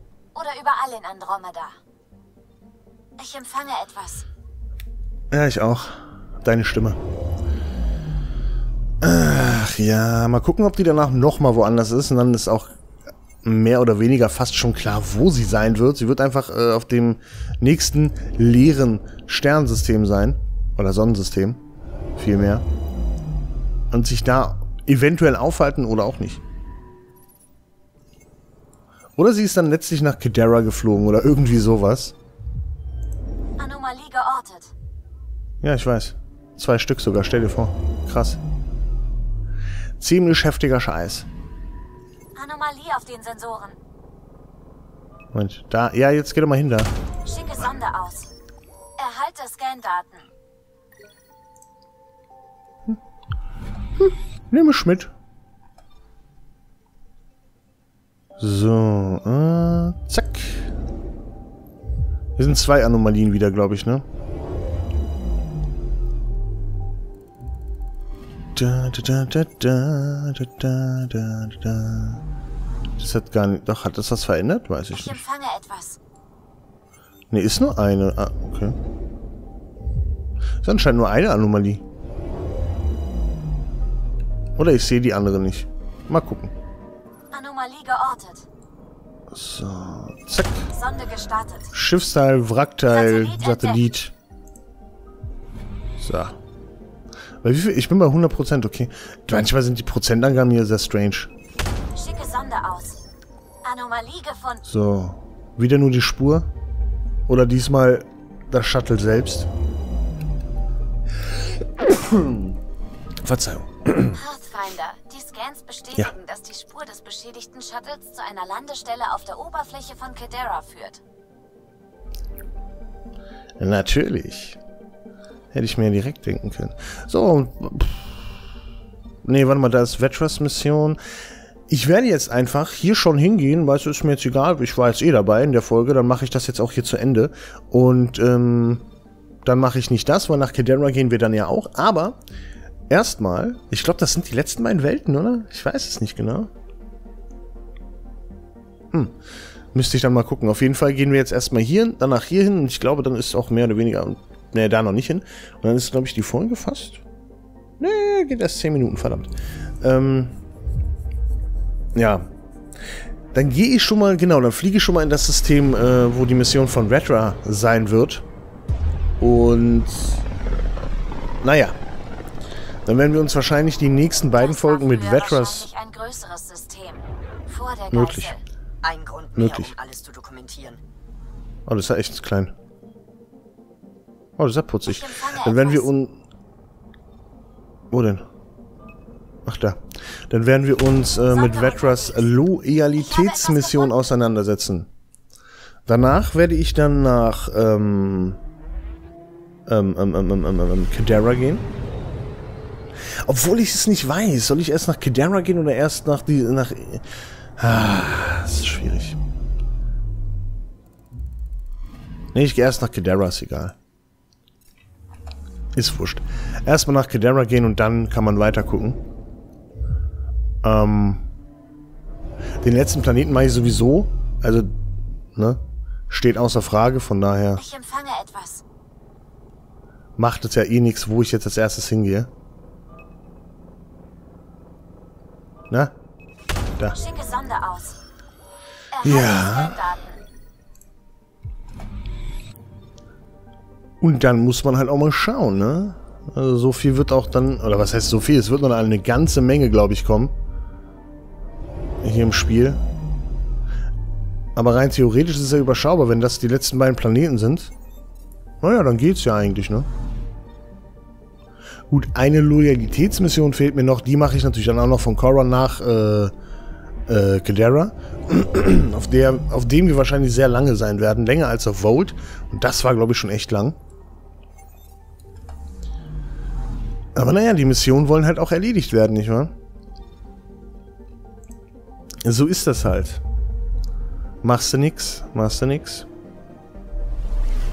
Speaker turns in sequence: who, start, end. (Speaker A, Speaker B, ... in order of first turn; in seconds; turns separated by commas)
Speaker A: 0.3-1.8, Speaker A: 3.2-4.2, Speaker B: 5.3-7.0, Speaker B: 9.0-12.8, Speaker B: 13.4-21.6, Speaker B: 22.2-22.7, Speaker B: 23.9-26.4, Speaker B: 29.2-32.2, Speaker A: 33.6-34.7, Speaker B: 35.6-38.4, Speaker B: 40.0-41.3, Speaker A: 42.4-43.8, Speaker B: 45.3-46.9, Speaker A: 47.2-48.3, Speaker A: 49.0-50.3, Speaker B: 54.0-55.1, Speaker B: 58.4-60.7, Speaker B: 62.4-64.0, Speaker B: 68.5-72.2, Speaker B: 73.0-75.2, Speaker A: 74.9-76.0, Speaker B: 77.3-78.8, Speaker B: 80.6-81.8, Speaker B: 84.6-86.5, Speaker A: 87.3-88.5, Speaker B: 89.3-90.7, Speaker A: 90.7-91.7, Speaker B: 91.7-94.1, Speaker A: 92.9-93.9, Speaker B: 96.0-96.4, Speaker B: 97.4-101.3, Speaker A: 101.9-103.0, Speaker A: 103.6-104.6, Speaker B: 104.6-106.5, Speaker B: 107.3-109.5, Speaker B: 111.8-112.5, Speaker B: 113.2-114.2, Speaker A: 114.1-121.0, Speaker B: 123.6-124.6, Speaker B: 125.5-128.2, Speaker B: 129.2-131.0, Speaker B: 131.7-138.8, Speaker B: 139.4-142.2, Speaker B: 142.9-146.5, Speaker B: 149.7-157.0, Speaker B: 157.8-160.4, Speaker B: 161.9-162.3, Speaker B: 163.3-168.2, Speaker B: 169.2-170.3, Speaker B: 171.4-171.8, Speaker B: 172.8-175.7, Speaker A: 174.3-178.4, Speaker B: 177.9-178.4, Speaker C: 178.8-180.8, Speaker B: 179.3-179.7, Speaker B: 181.7-182.5, Speaker B: 184.4-186.2, Speaker A: 184.8-185.9, Speaker B: 187.9-188.3, Speaker B: 189.4-194.9, Speaker A: 191.3-192.4, Speaker A: 192.9-194.0, Speaker B: 195.8-198.4, Speaker B: 199.7-201.7, Speaker B: 203.2-209.2, Speaker B: 212.3-213.8, Speaker B: 215.7-219.0, Speaker B: 220.6-221.3, Speaker B: 222.6-224.7, Speaker B: 225.3-227.6, Speaker A: 227.6-228.6, Speaker B: 230.2-232.3, Speaker A: 236.9-238.0, Speaker A: 238.9-240.2, Speaker B: 239.0-239.8, Speaker B: 244.0-250.3, Speaker B: 252.0-252.8, Speaker B: 254.6-257.7, Speaker B: 258.6-259.9, Speaker B: 261.9-266.3, Speaker B: 267.1-273.8, Speaker B: 277.1-279.5, Speaker B: 282.2-283.2, Speaker B: 284.4-286.1